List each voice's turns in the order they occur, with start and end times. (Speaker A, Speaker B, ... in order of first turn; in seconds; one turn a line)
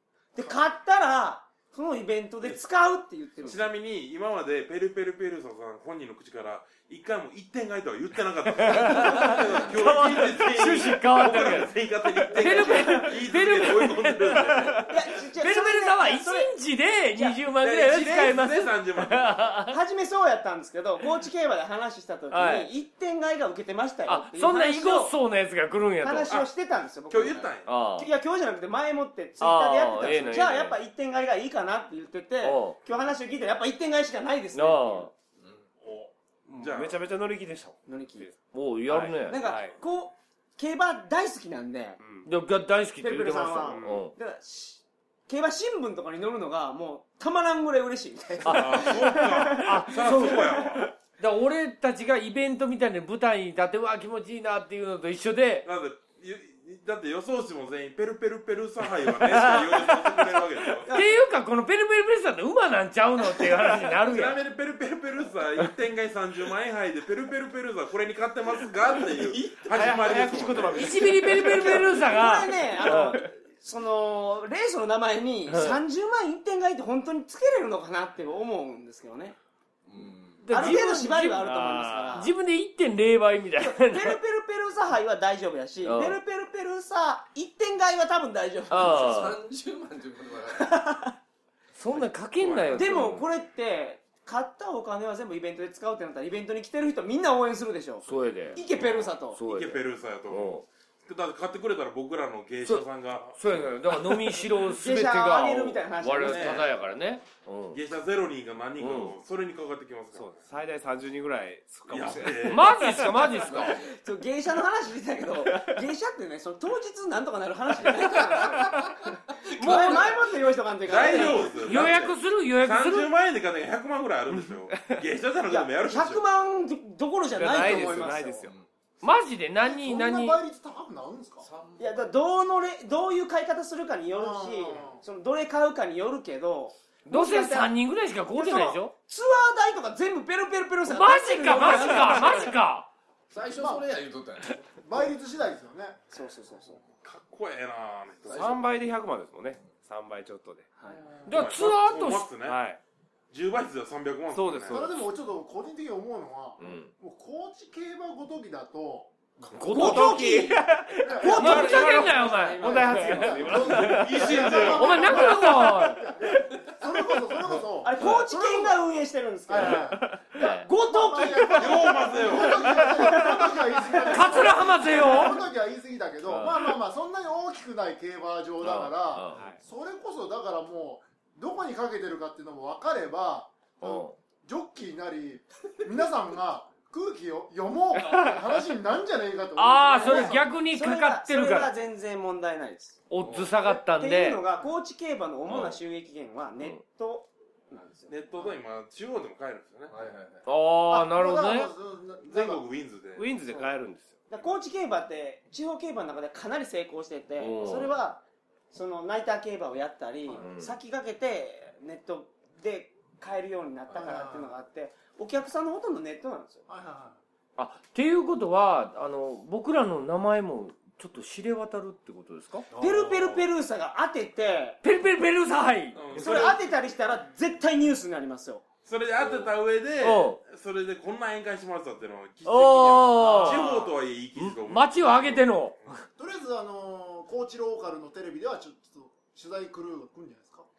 Speaker A: 0.3-3.7
Speaker B: 3.4-14.9
Speaker C: 8.6-19.8
Speaker A: 9.0-9.4
Speaker A: 14.9-16.5
Speaker A: 17.1-17.4
Speaker B: 17.6-19.6
Speaker A: 19.7-25.1
Speaker C: 22.3-22.7
Speaker C: 24.1-26.3
Speaker A: 26.0-35.1
Speaker B: 27.1-27.7
Speaker C: 27.6-28.1
Speaker C: 29.4-30.8
Speaker C: 32.4-32.8
Speaker C: 34.5-35.1
Speaker B: 35.8-37.0
Speaker D: 36.5-38.4
Speaker A: 37.9-38.3
Speaker C: 38.5-39.4
Speaker D: 38.9-39.8
Speaker A: 39.2-42.0
Speaker D: 42.0-42.3
Speaker C: 42.2-44.1
Speaker A: 43.0-50.3
Speaker D: 43.7-44.1
Speaker C: 48.4-55.7
Speaker B: 48.5-50.9
Speaker B: 55.6-60.9
Speaker C: 59.2-64.4
Speaker B: 64.0-71.0
Speaker D: 69.2-72.0
Speaker C: 70.7-73.2
Speaker A: 71.2-79.3
Speaker D: 72.8-73.2
Speaker C: 75.5-75.8
Speaker E: 79.9-80.5
Speaker C: 80.4-84.2
Speaker A: 80.5-82.3
Speaker A: 83.6-89.3
Speaker C: 85.8-86.2
Speaker C: 88.7-89.4
Speaker E: 88.7-90.9
Speaker A: 90.5-91.1
Speaker C: 91.8-93.2
Speaker B: 92.4-93.2
Speaker A: 92.7-99.4
Speaker C: 98.0-98.7
Speaker B: 98.8-103.7
Speaker C: 99.2-100.6
Speaker C: 102.6-107.8
Speaker A: 104.6-106.7
Speaker B: 106.2-106.7
Speaker B: 107.7-110.5
Speaker C: 108.8-109.2
Speaker D: 110.1-113.6
Speaker B: 111.9-113.0
Speaker C: 112.4-113.8
Speaker E: 113.4-113.9
Speaker A: 113.7-121.7
Speaker D: 115.5-115.8
Speaker E: 118.7-119.1
Speaker C: 119.6-120.2
Speaker D: 119.8-120.0
Speaker B: 120.8-126.2
Speaker E: 121.0-121.8
Speaker C: 121.1-123.1
Speaker A: 125.5-128.5
Speaker D: 127.3-128.5
Speaker E: 127.6-128.7
Speaker C: 129.0-130.4
Speaker F: 129.6-131.5
Speaker E: 131.4-132.1
Speaker A: 131.8-137.7
Speaker F: 134.1-135.0
Speaker C: 137.1-138.9
Speaker A: 138.3-142.5
Speaker C: 140.8-142.9
Speaker E: 143.3-144.8
Speaker F: 143.5-143.8
Speaker F: 144.7-146.0
Speaker A: 146.1-146.8
Speaker B: 147.0-148.6
Speaker E: 148.3-148.6
Speaker D: 148.3-150.7
Speaker A: 150.8-151.0
Speaker B: 151.2-152.6
Speaker C: 151.2-152.3
Speaker D: 152.4-152.8
Speaker B: 153.3-154.9
Speaker D: 154.3-155.0
Speaker F: 154.7-159.2
Speaker C: 156.6-156.9
Speaker C: 159.5-160.5
Speaker D: 159.7-164.7
Speaker A: 159.7-163.0
Speaker F: 161.0-168.8
Speaker C: 161.2-163.7
Speaker B: 163.4-165.4
Speaker C: 164.5-166.1
Speaker A: 167.8-173.5
Speaker C: 168.0-168.2
Speaker F: 169.5-190.5
Speaker D: 169.6-170.4
Speaker C: 170.4-170.7
Speaker B: 171.6-172.6
Speaker D: 172.4-174.1
Speaker C: 174.1-175.4
Speaker C: 176.2-176.8
Speaker C: 178.6-179.4
Speaker C: 183.8-184.2
Speaker C: 189.6-191.7
Speaker A: 190.0-193.0
Speaker C: 193.1-194.4
Speaker E: 193.2-193.5
Speaker A: 193.6-198.1
Speaker C: 195.5-195.8
Speaker B: 198.1-199.9
Speaker E: 199.9-200.4
Speaker C: 200.4-201.7
Speaker F: 200.9-202.6
Speaker B: 202.2-203.3
Speaker D: 203.2-204.1
Speaker A: 204.3-216.7
Speaker C: 207.4-207.9
Speaker C: 210.3-210.7
Speaker E: 213.9-214.2
Speaker F: 214.1-214.5
Speaker F: 216.7-217.2
Speaker C: 217.6-222.7
Speaker A: 222.7-224.8
Speaker C: 224.8-226.5
Speaker B: 225.9-226.7
Speaker A: 226.1-228.6
Speaker B: 228.8-235.9
Speaker E: 229.2-229.5
Speaker C: 230.0-230.4
Speaker C: 232.4-233.8
Speaker C: 234.3-236.0
Speaker F: 236.2-240.7